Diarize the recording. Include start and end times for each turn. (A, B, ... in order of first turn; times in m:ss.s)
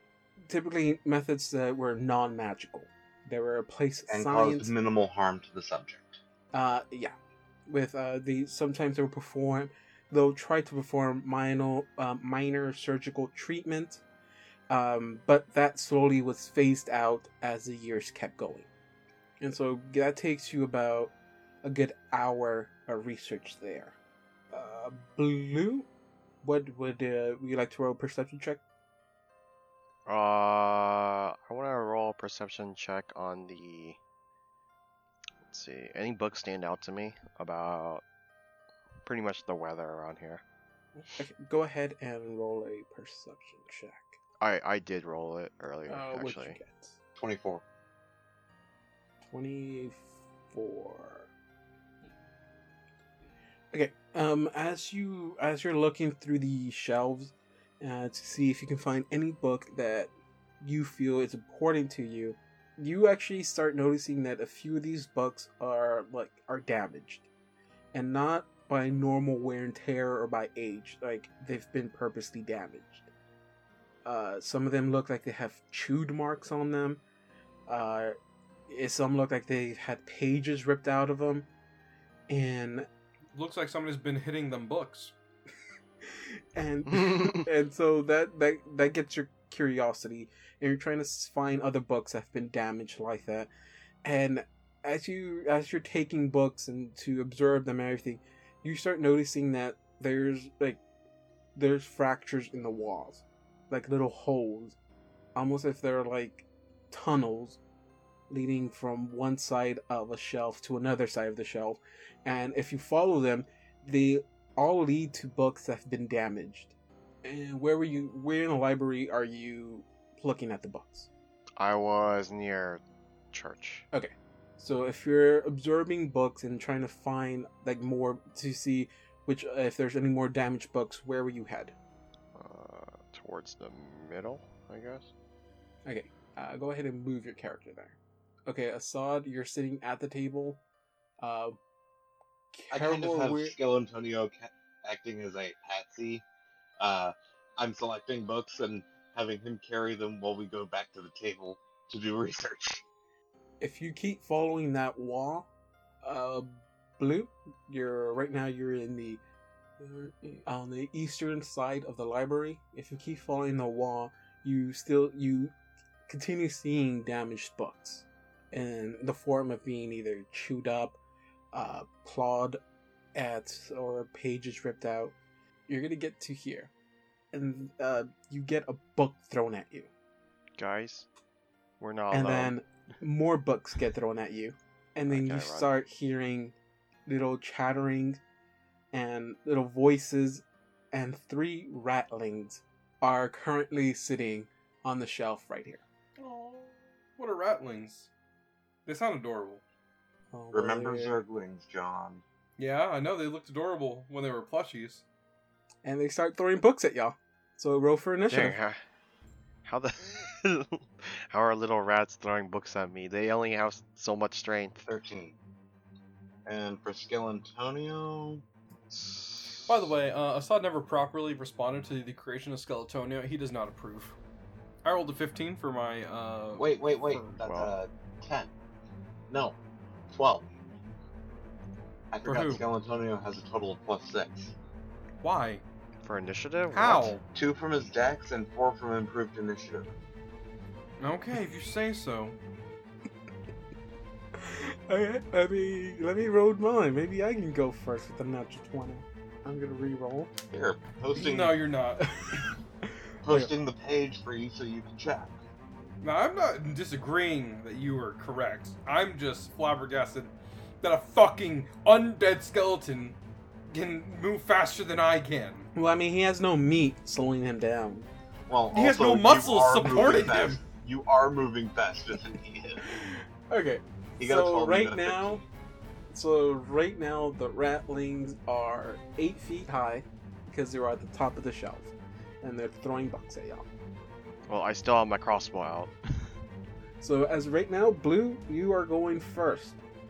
0:00.5-0:04.7 A
0:04.1-0:06.2 B
0:06.5-0:07.1 A
0:07.7-0:14.0 A
0:14.7-0:18.7 A
0:19.4-0:24.0 A
0:24.5-0:25.9 A
0:26.4-0:28.6 A
0:30.1-0:34.0 C
0:35.5-0:38.0 C
0:39.0-0:40.4 C
0:41.0-0:44.2 A
0:44.4-0:46.6 C
0:45.9-0:46.9 A
0:47.2-0:47.6 B
0:49.3-0:51.3 A
0:53.7-1:07.3 A
1:07.9-1:13.1 A
1:14.0-1:17.0 A
1:17.7-1:18.2 A
1:18.7-1:21.5 A
1:22.3-1:22.9 A
1:23.3-1:25.1 D
1:26.1-1:33.5 A
1:26.9-1:27.4 C
1:34.0-1:40.8 A
1:41.5-1:44.8 A
1:45.3-1:47.6 A
1:48.3-2:01.1 A
2:01.6-2:03.8 C
2:03.9-2:11.7 A
2:12.3-2:15.1 C
2:15.8-2:20.6 A
2:21.2-2:21.6 A
2:22.5-2:23.5 A
2:22.7-2:26.2 B
2:26.8-2:32.8 B
2:33.6-2:35.5 A
2:36.0-2:39.2 A
2:39.8-2:45.5 A
2:46.1-2:51.0 A
2:51.5-2:52.6 A
2:53.1-2:55.1 A
2:55.7-2:56.7 A
2:57.3-2:59.9 A
3:00.6-3:01.1 C
3:01.8-3:02.5 C
3:02.1-3:06.5 A
3:05.1-3:05.7 C
3:07.1-3:08.2 A
3:08.9-3:15.8 A
3:16.2-3:18.1 D
3:18.8-3:19.6 D
3:20.3-3:21.2 A
3:20.5-3:22.2 B
3:22.6-3:25.0 D
3:25.8-3:28.6 A
3:28.3-3:28.8 C
3:29.6-3:34.8 C
3:34.8-3:35.3 B
3:36.4-3:38.4 B
3:38.9-3:39.7 C
3:39.6-3:44.1 D
3:44.8-3:47.3 D
3:46.6-3:48.5 B
3:47.4-3:47.7 C
3:49.3-3:49.6 B
3:50.1-3:50.5 B
3:52.1-3:54.5 B
3:52.2-3:52.6 D
3:55.2-3:55.6 D
3:56.0-3:57.2 C
3:56.7-3:57.2 D
3:57.3-3:59.9 B
4:01.0-4:02.4 D
4:04.4-4:10.3 A
4:10.5-4:11.6 B
4:11.1-4:12.1 D
4:12.8-4:13.5 A
4:13.2-4:15.3 B
4:16.0-4:23.2 D
4:23.7-4:25.7 D
4:25.7-4:28.1 A
4:28.5-4:32.8 B
4:28.7-4:30.6 D
4:32.8-4:35.4 A
4:34.2-4:35.4 B
4:36.1-4:43.6 A
4:44.5-4:45.9 C
4:47.0-4:49.8 A